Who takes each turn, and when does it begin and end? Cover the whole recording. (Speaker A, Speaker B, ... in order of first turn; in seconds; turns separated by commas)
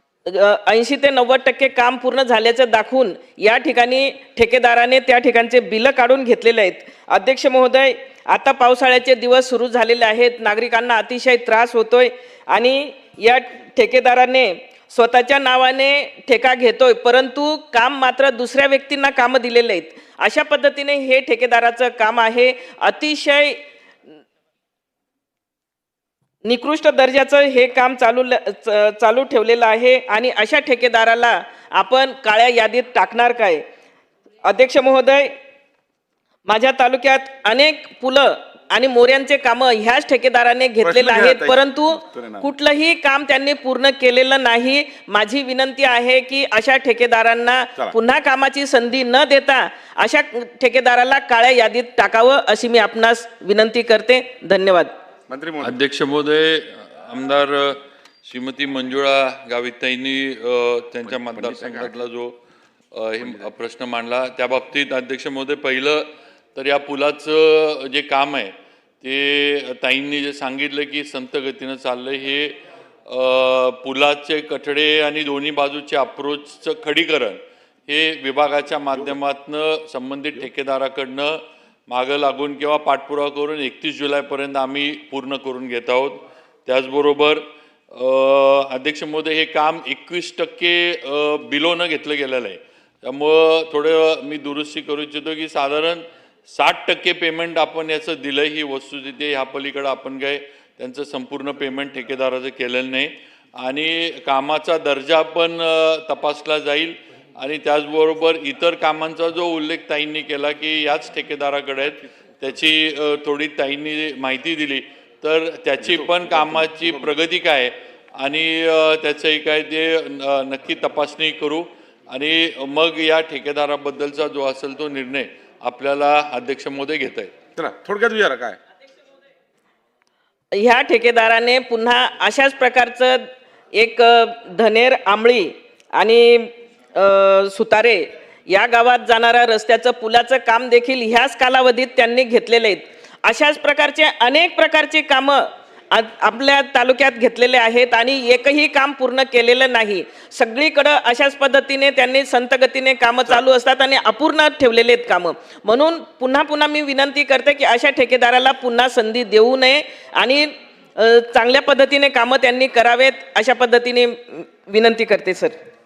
Speaker A: 0.2-23.6, Speaker A: 26.4-33.6, Speaker A: 34.4-35.3, Speaker A: 36.5-54.9, Speaker B: 40.8-42.5, Speaker B: 55.3-55.8, Speaker C: 55.6-62.4, Speaker B: 61.1-61.9, Speaker C: 62.9-127.3, Speaker B: 63.2-63.5, Speaker B: 115.8-117.2, Speaker B: 127.5-128.6, Speaker A: 130.5-165.6